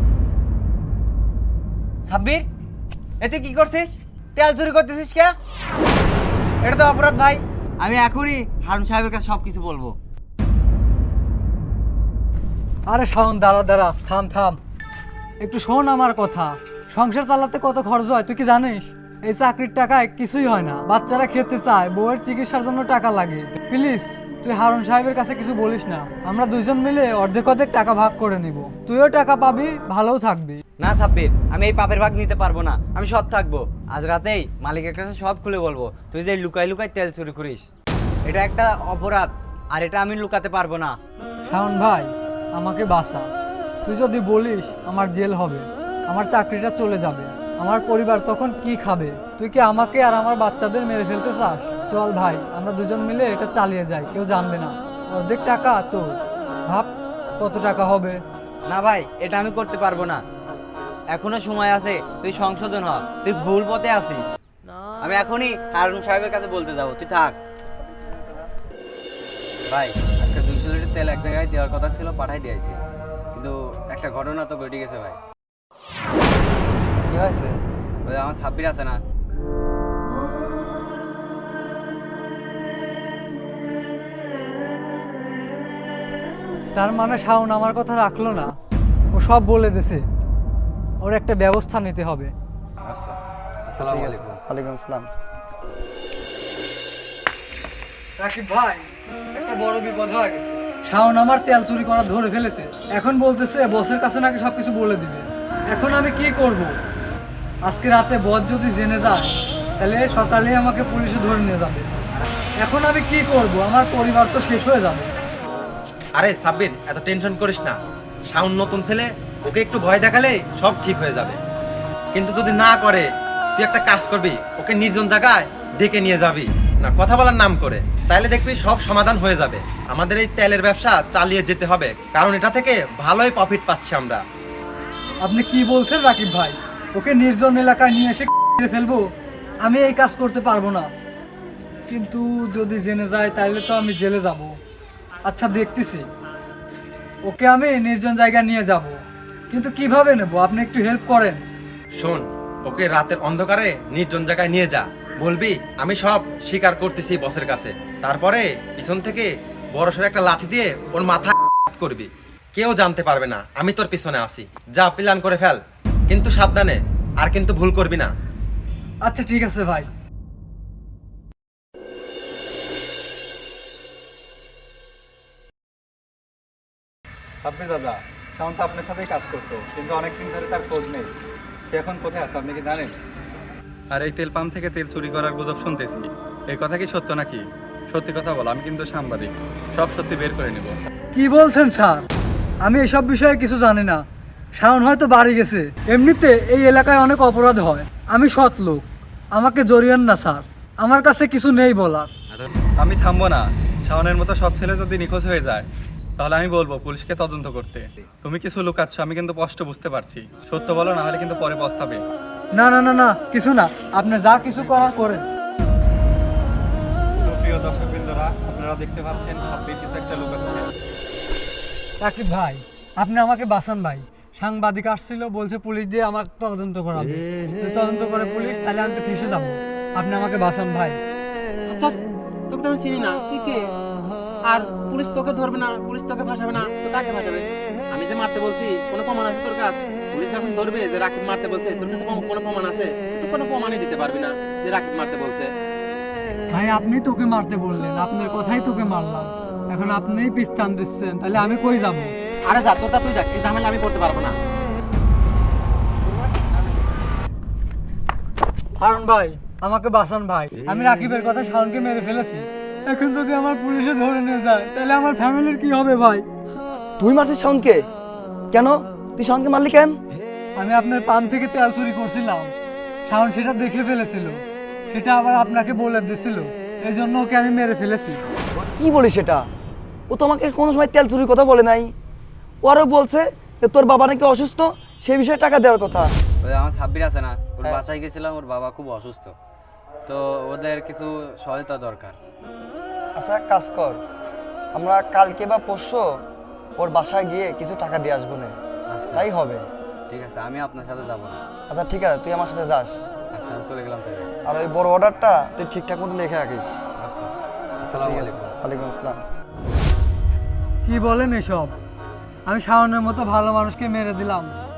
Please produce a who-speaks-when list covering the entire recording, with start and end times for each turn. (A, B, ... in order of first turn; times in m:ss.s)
0:02.0-0:02.4 A
0:03.2-0:05.4 A
0:06.6-0:10.0 A
0:12.9-0:14.6 B
0:15.4-0:30.6 B
0:30.8-0:37.6 A
0:38.2-0:41.0 A
0:41.4-0:43.3 B
0:43.8-0:56.2 B
0:56.7-0:58.2 B
0:58.7-1:00.2 A
1:01.1-1:04.3 A
1:05.0-1:07.4 A
1:09.7-1:12.8 A
1:13.3-1:15.2 A
1:17.1-1:17.6 C
1:18.0-1:19.0 A
1:26.7-1:28.5 B
1:29.1-1:30.0 B
1:31.0-1:32.3 B
1:32.8-1:34.4 A
1:33.8-1:35.1 C
1:38.2-1:46.7 B
1:47.6-1:51.9 B
1:52.6-1:55.1 B
1:56.2-1:57.8 D
1:58.3-2:01.4 D
2:02.1-2:14.2 D
2:15.2-2:19.0 B
2:19.6-2:20.9 B
2:21.9-2:24.5 B
2:25.2-2:26.0 B
2:27.2-2:29.0 B
2:29.5-2:31.4 B
2:32.0-2:48.1 D
2:49.0-2:49.9 B
2:57.4-3:01.1 E
3:01.7-3:02.9 E
3:03.9-3:10.8 E
3:11.1-3:12.0 B
3:12.6-3:14.0 B
3:14.6-3:22.1 B
3:22.8-3:32.0 E
3:32.5-3:35.2 B
3:37.2-3:40.7 E
3:42.0-3:51.0 B
3:52.5-3:53.6 F
3:54.5-4:05.5 F
4:06.5-4:12.1 B
4:12.5-4:14.3 F
4:18.8-4:26.2 B
4:27.0-4:27.8 C
4:28.5-4:30.0 C
4:30.6-4:32.5 B
4:33.0-4:38.2 B
4:38.6-4:39.5 C
4:40.1-4:41.9 C
4:42.6-4:46.1 C
4:46.4-4:49.4 A
4:50.0-4:52.2 A
4:53.2-4:54.0 C
4:54.7-4:56.2 C
4:56.8-4:58.6 C
4:58.9-4:59.3 A
4:59.1-4:59.6 C
5:00.1-5:01.4 A
5:01.7-5:03.0 C
5:03.3-5:04.3 A
5:04.4-5:06.8 C
5:07.0-5:08.5 A
5:08.0-5:09.2 C
5:10.8-5:11.8 B
5:12.4-5:14.5 B